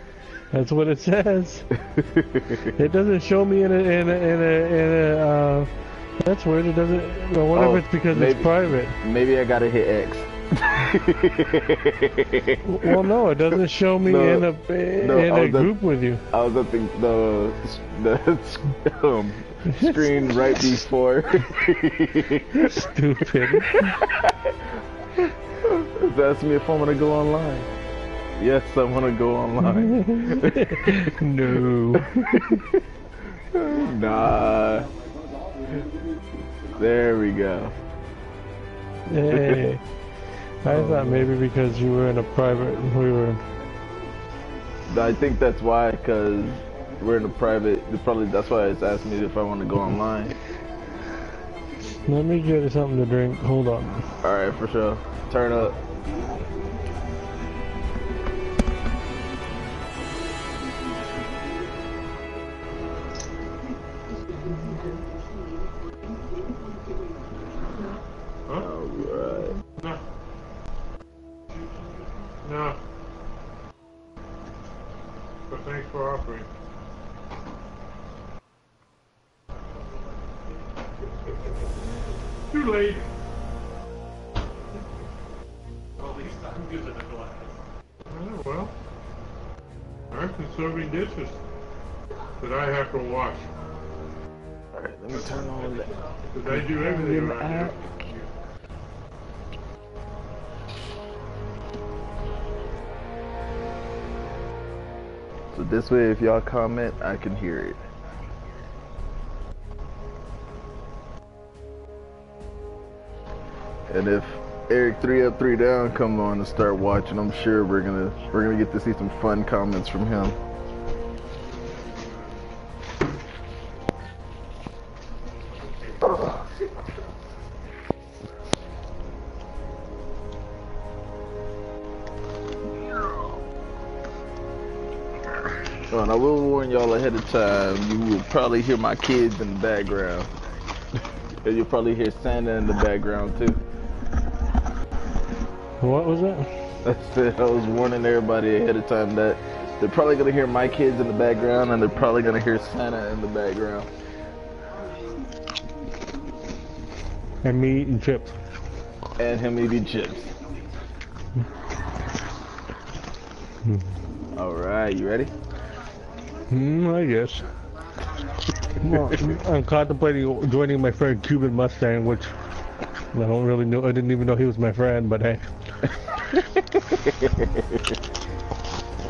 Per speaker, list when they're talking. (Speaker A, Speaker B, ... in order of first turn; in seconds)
Speaker A: 0.5-1.7, 2.7-8.9, 12.6-16.2, 19.7-20.1, 22.6-23.9, 29.7-32.5, 39.1-39.8, 40.6-43.4, 52.1-54.0, 145.8-146.5, 157.4-158.3, 166.5-167.4, 168.8-172.3, 173.1-175.5
Speaker B: 1.8-2.7, 7.5-15.8, 16.3-22.8, 23.6-24.7, 25.6-27.7, 28.4-31.1, 31.9-32.8, 33.5-34.9, 36.7-37.7, 39.3-39.8, 40.6-41.3, 44.9-50.3, 54.2-55.8, 68.5-69.5, 94.7-97.8, 105.5-107.8, 113.9-120.4, 126.0-126.4, 135.9-140.3, 141.4-143.6, 146.8-153.9, 159.2-160.3, 164.3-165.3, 176.3-177.9
Speaker C: 71.5-72.8, 75.5-76.5, 82.5-83.1, 86.0-87.5, 88.1-88.7, 90.1-91.4, 92.4-93.5, 96.3-98.3